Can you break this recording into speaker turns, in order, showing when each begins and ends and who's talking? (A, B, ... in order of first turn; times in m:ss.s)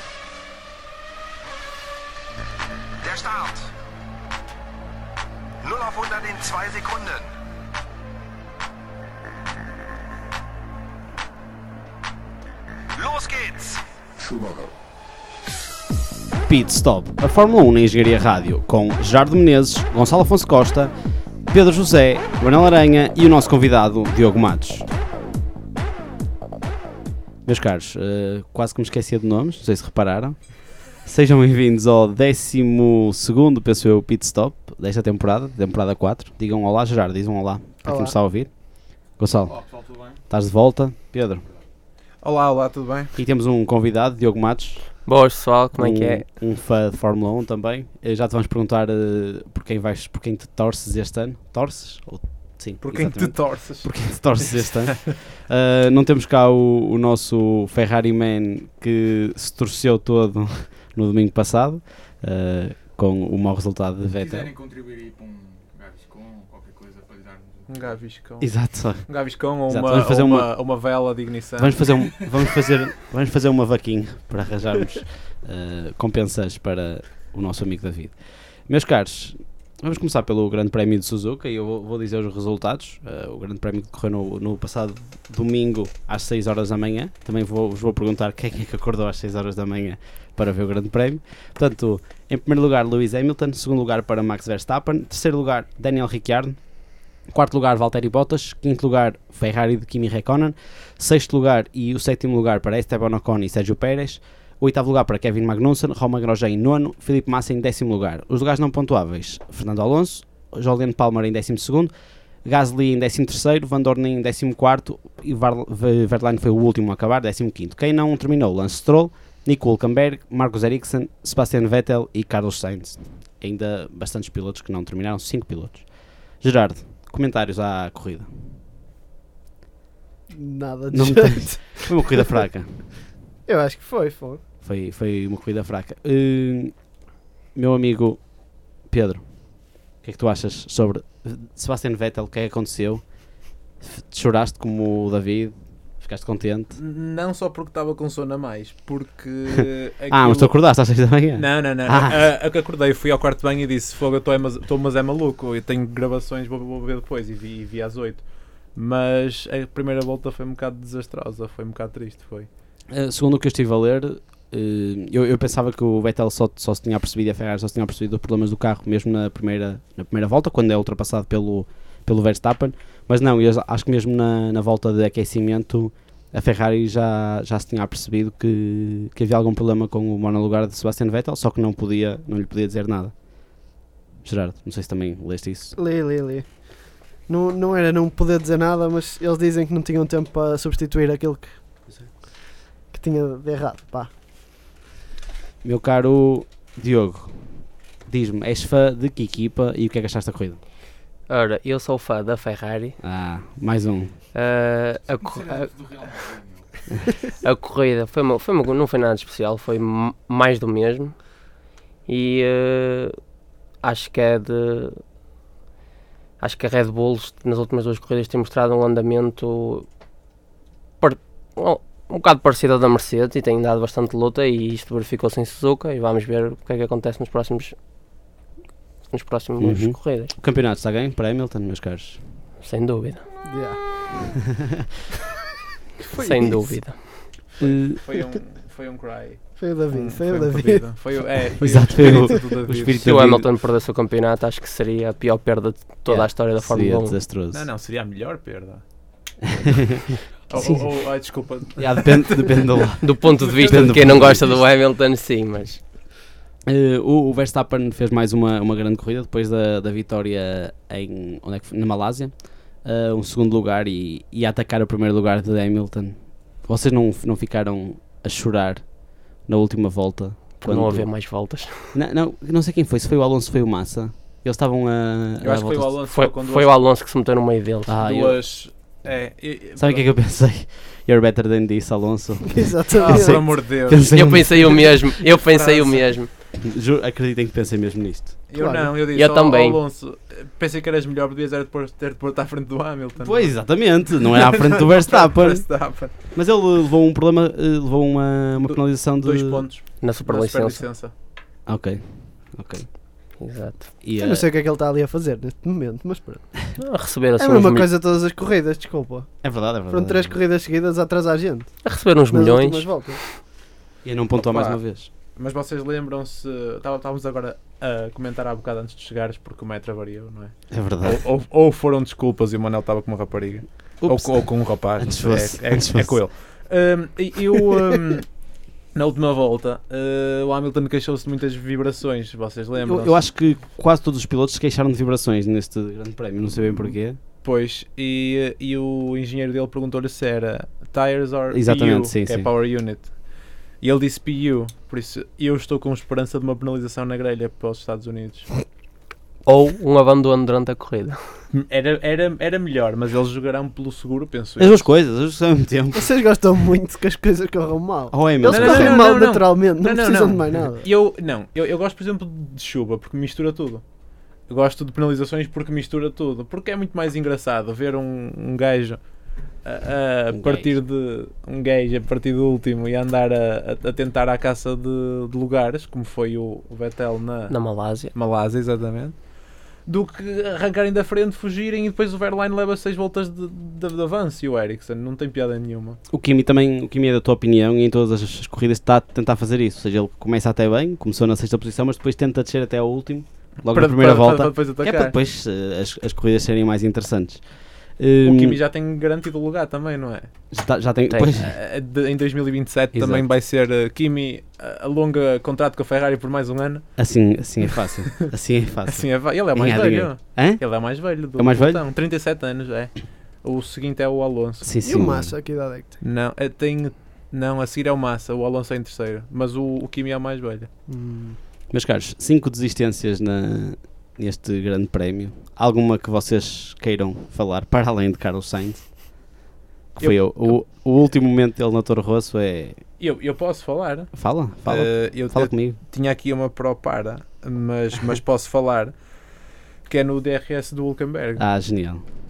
0:03.0-0:03.6 A
0:05.6-0:07.3 A
0:13.0-0:13.8 A
0:16.4-0:20.9 B
0:21.4-0:24.8 B
0:27.4-0:39.6 B
0:37.8-0:38.1 C
0:39.5-0:40.2 D
0:40.2-0:41.4 B
0:42.2-0:43.1 E
0:43.2-0:45.0 B
0:45.0-0:46.2 F
0:45.7-1:04.6 B
0:52.8-0:55.0 E
1:04.4-1:05.3 D
1:07.7-1:11.9 E
1:08.4-1:10.5 B
1:11.6-1:36.6 B
1:37.2-1:51.9 B
1:52.4-2:08.3 B
2:10.3-2:12.4 C
2:10.9-2:12.7 B
2:13.4-2:14.4 C
2:14.6-2:16.7 B
2:17.5-2:23.0 B
2:23.8-2:26.8 B
2:26.8-2:30.6 E
2:30.1-2:32.2 B
2:31.3-2:42.5 E
2:42.9-3:05.7 B
3:05.8-3:11.6 C
3:12.9-3:14.1 C
3:15.6-3:20.6 B
3:21.3-3:23.0 F
3:23.0-3:24.1 B
3:24.3-3:26.0 F
3:25.2-3:26.6 D
3:27.4-3:31.5 F
3:32.0-3:33.2 F
3:33.8-3:35.0 F
3:36.4-3:39.9 F
3:41.0-3:47.7 F
3:49.1-3:50.3 F
3:49.6-3:52.2 B
3:52.6-3:53.3 F
3:53.4-3:53.8 C
3:56.1-3:56.7 C
3:56.2-3:57.3 F
3:57.5-4:03.1 E
3:57.6-3:58.0 B
3:59.6-4:00.9 C
4:01.6-4:03.5 B
4:02.9-4:07.2 F
4:06.1-4:07.6 B
4:07.5-4:08.8 E
4:09.6-4:10.0 B
4:10.5-4:12.6 E
4:10.5-4:10.8 B
4:11.8-4:14.4 B
4:13.0-4:15.8 F
4:13.3-4:14.4 E
4:16.6-4:31.3 B
4:30.6-4:31.9 F
4:31.9-4:35.9 B
4:35.4-4:36.7 E
4:36.1-4:37.9 F
4:37.8-4:38.4 B
4:38.0-4:40.1 E
4:39.8-4:45.0 B
4:42.5-4:43.7 C
4:42.9-4:44.8 E
4:44.0-4:46.3 F
4:45.3-4:46.1 E
4:46.6-4:48.4 B
4:48.5-4:56.1 E
4:48.6-4:48.9 C
4:49.1-4:49.8 F
4:53.2-4:59.7 B
4:58.6-5:01.1 E
5:00.0-5:00.8 F
5:01.6-5:02.9 B
5:03.4-5:03.9 F
5:04.0-5:04.4 B
5:04.2-5:06.6 C
5:06.8-5:07.9 F
5:07.4-5:13.2 C
5:09.4-5:10.4 B
5:11.8-5:13.1 F
5:14.0-5:15.1 B
5:14.3-5:14.8 E
5:15.3-5:33.2 E
5:20.7-5:21.2 B
5:24.0-5:26.2 B
5:32.8-5:37.2 B
5:37.4-5:43.2 E
5:41.5-5:42.5 B
5:43.8-5:48.5 E
5:49.4-5:51.2 F
5:51.5-5:54.9 E
5:54.6-5:56.1 B
5:55.9-6:00.8 C
5:58.1-5:59.0 B
5:58.5-6:03.8 E
6:04.5-6:26.0 E
6:10.3-6:10.7 B
6:17.5-6:18.1 F
6:26.1-6:38.6 B
6:33.7-6:35.1 E
6:38.2-6:40.3 E
6:40.5-6:41.5 B
6:41.3-6:46.9 E
6:42.9-6:43.3 B
6:47.0-6:51.8 B
6:48.8-6:54.7 E
6:54.6-6:55.3 B
6:54.8-6:56.0 C
6:56.0-7:00.7 E
7:00.9-7:01.4 C
7:01.7-7:09.1 B
7:09.9-7:12.8 B
7:10.0-7:10.6 E
7:13.0-7:19.2 E
7:14.1-7:15.8 B
7:19.8-7:21.5 E
7:21.4-7:22.0 B